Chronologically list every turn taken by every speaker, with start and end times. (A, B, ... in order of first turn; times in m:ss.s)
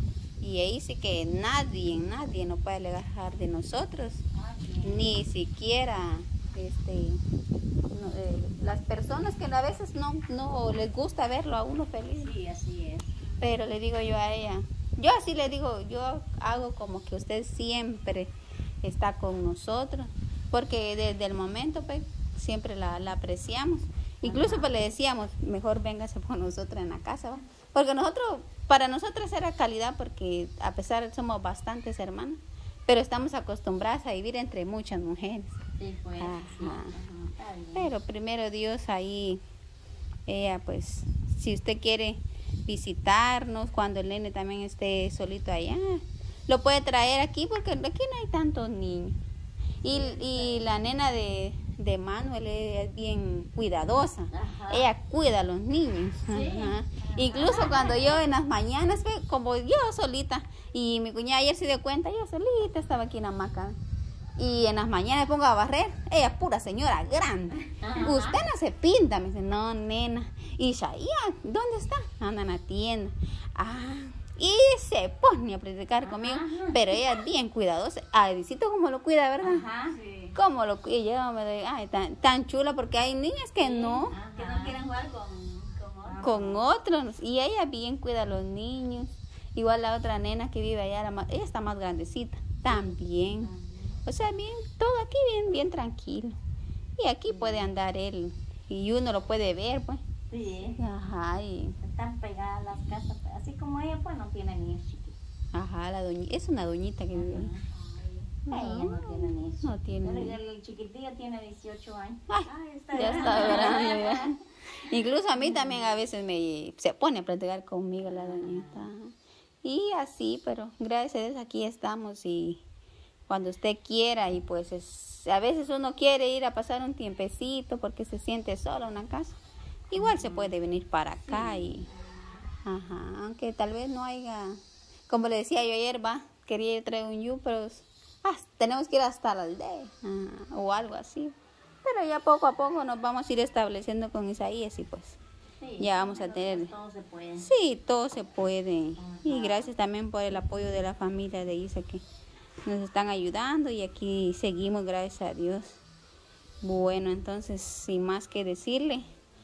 0:00.4-0:04.2 A
0:04.4-0:05.1 B
0:04.8-0:07.2 A
0:07.9-0:12.3 A
0:12.2-0:13.5 B
0:13.4-0:18.3 A
0:18.8-0:35.6 A
0:24.2-0:24.7 B
0:35.8-0:37.9 B
0:36.2-0:36.9 A
0:37.8-0:39.4 A
0:40.3-0:49.1 A
0:49.8-1:03.8 A
0:49.8-0:50.7 B
0:54.3-0:54.9 B
0:56.3-0:58.2 B
1:04.4-1:19.6 A
1:07.7-1:08.4 B
1:16.0-1:16.8 B
1:19.4-1:19.9 B
1:19.9-1:20.3 C
1:20.4-1:24.1 A
1:23.6-1:26.2 C
1:24.1-1:24.8 B
1:26.0-1:26.6 B
1:26.2-1:33.5 A
1:32.7-1:34.0 B
1:34.0-1:36.4 A
1:37.0-1:40.0 A
1:37.3-1:37.7 B
1:40.3-1:40.8 B
1:40.8-1:41.8 A
1:41.8-1:45.2 B
1:45.5-1:47.5 A
1:47.1-1:47.7 B
1:47.7-1:48.3 C
1:48.5-1:52.2 B
1:48.5-1:50.4 A
1:52.3-2:02.6 A
1:52.4-1:54.2 C
1:52.9-1:54.3 B
1:55.4-1:55.8 B
1:58.0-1:58.9 B
2:03.3-2:09.4 A
2:09.9-2:11.9 A
2:10.0-2:10.5 B
2:11.3-2:11.8 C
2:12.6-2:25.2 A
2:25.6-2:27.5 B
2:25.8-2:26.7 A
2:27.4-2:32.0 A
2:29.0-2:29.7 B
2:32.6-2:35.8 A
2:36.6-2:39.0 A